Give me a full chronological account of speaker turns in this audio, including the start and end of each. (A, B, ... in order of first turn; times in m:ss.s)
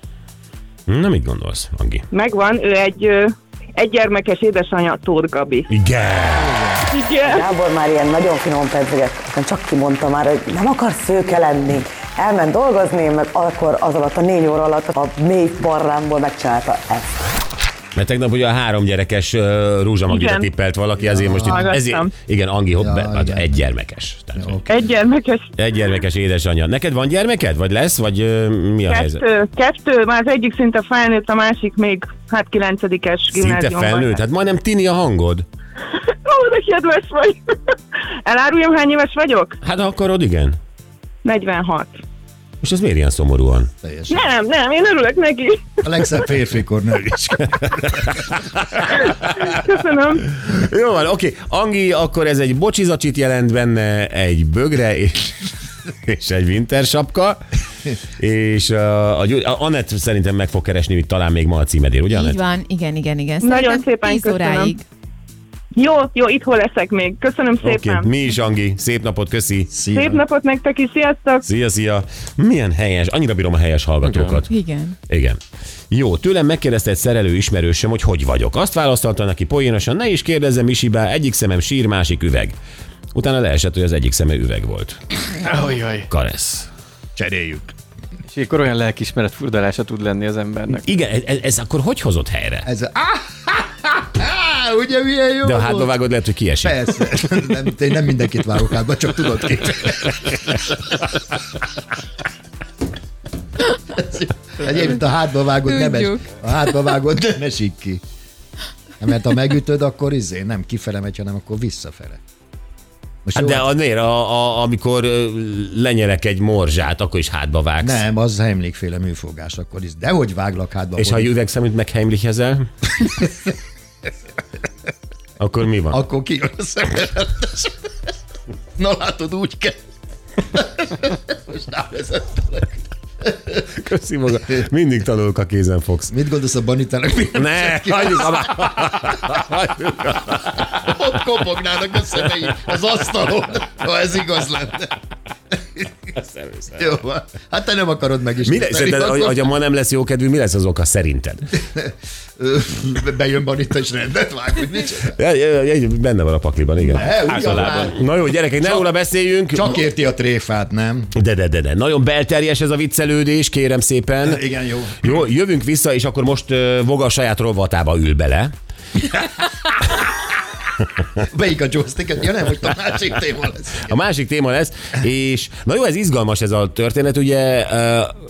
0:00.9-0:02.0 A
0:02.1-0:05.7 B
0:05.7-0:06.8 A
0:06.9-0:07.4 B
0:07.2-0:17.2 C
0:18.0-0:24.6 A
0:20.1-0:20.5 B
0:21.0-0:21.6 D
0:21.4-0:22.1 B
0:22.8-0:23.5 D
0:24.4-0:24.9 D
0:24.7-0:25.5 B
0:25.6-0:29.2 A
0:28.9-0:34.2 B
0:33.3-0:35.4 A
0:36.2-0:37.5 B
0:38.3-0:39.6 B
0:39.6-0:40.6 A
0:41.2-0:42.0 B
0:42.6-0:43.7 A
0:43.8-0:44.2 D
0:44.1-0:45.7 B
0:45.8-0:48.4 D
0:48.2-0:49.2 A
0:49.3-0:50.2 B
0:50.4-0:55.5 A
0:56.1-0:57.4 A
0:58.2-1:02.4 A
1:02.1-1:04.8 E
1:03.4-1:04.8 B
1:05.8-1:08.1 B
1:07.6-1:09.7 A
1:09.7-1:10.2 D
1:09.9-1:11.4 B
1:11.4-1:14.5 A
1:14.5-1:15.0 E
1:15.1-1:15.4 A
1:15.9-1:22.5 A
1:23.2-1:25.4 A
1:25.4-1:26.1 F
1:26.1-1:26.7 A
1:27.2-1:27.7 D
1:28.3-1:30.9 F
1:30.8-1:32.7 A
1:32.6-1:36.0 D
1:35.4-1:36.8 A
1:36.6-1:41.1 D
1:43.7-1:48.0 D
1:49.0-1:52.2 D
1:53.2-1:53.7 D
1:53.4-1:58.0 A
1:57.8-2:01.3 D
2:01.0-2:03.3 A
2:05.4-2:06.0 A
2:05.9-2:07.7 D
2:08.8-2:09.8 D
2:10.5-2:12.8 D
2:13.5-2:16.1 A
2:16.1-2:19.3 D
2:17.4-2:21.0 A
2:20.7-2:25.0 D
2:26.1-2:26.8 A
2:26.8-2:29.5 D
2:28.5-2:31.6 A
2:31.6-2:35.2 D
2:35.2-2:39.8 A
2:36.8-2:38.0 D
2:37.4-2:37.9 F
2:39.5-2:41.1 D
2:41.2-2:44.4 A
2:44.2-2:45.1 D
2:45.0-2:48.5 A
2:51.2-2:54.0 D
2:53.9-2:58.1 A